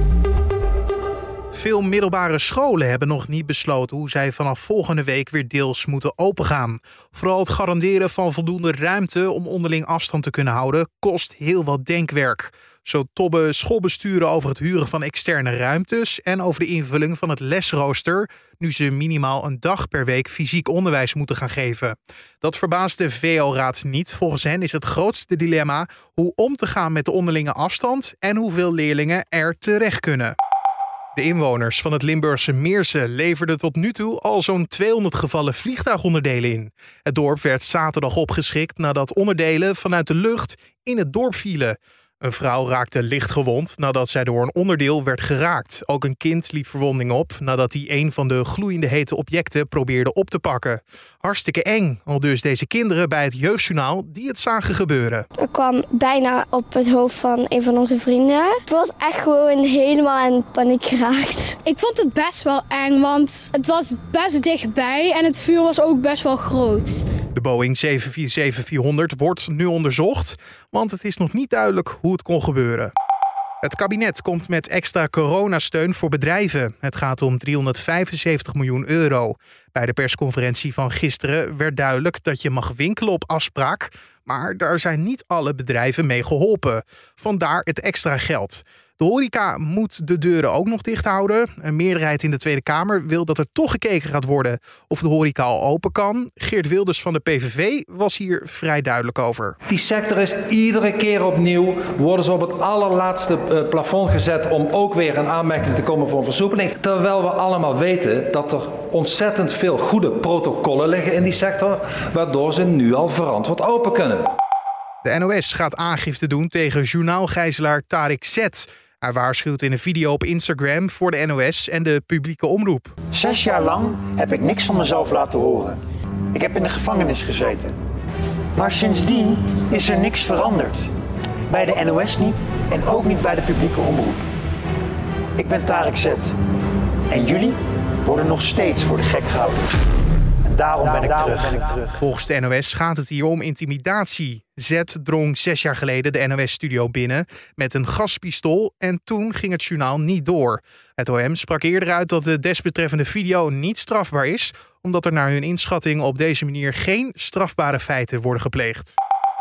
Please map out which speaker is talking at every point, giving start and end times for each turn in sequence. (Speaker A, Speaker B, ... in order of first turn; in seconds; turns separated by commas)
Speaker A: 1.5-30.4, Speaker A: 31.1-55.3, Speaker B: 55.4-61.6, Speaker C: 61.6-67.0, Speaker A: 67.3-72.9, Speaker A: 73.6-99.6, Speaker D: 99.7-114.3, Speaker A: 115.0-122.9, Speaker E: 123.1-125.8, Speaker E: 126.3-127.8, Speaker E: 128.6-130.9, Speaker E: 131.5-134.2, Speaker E: 135.4-136.3, Speaker E: 137.1-139.7, Speaker E: 140.5-141.9, Speaker A: 142.0-159.0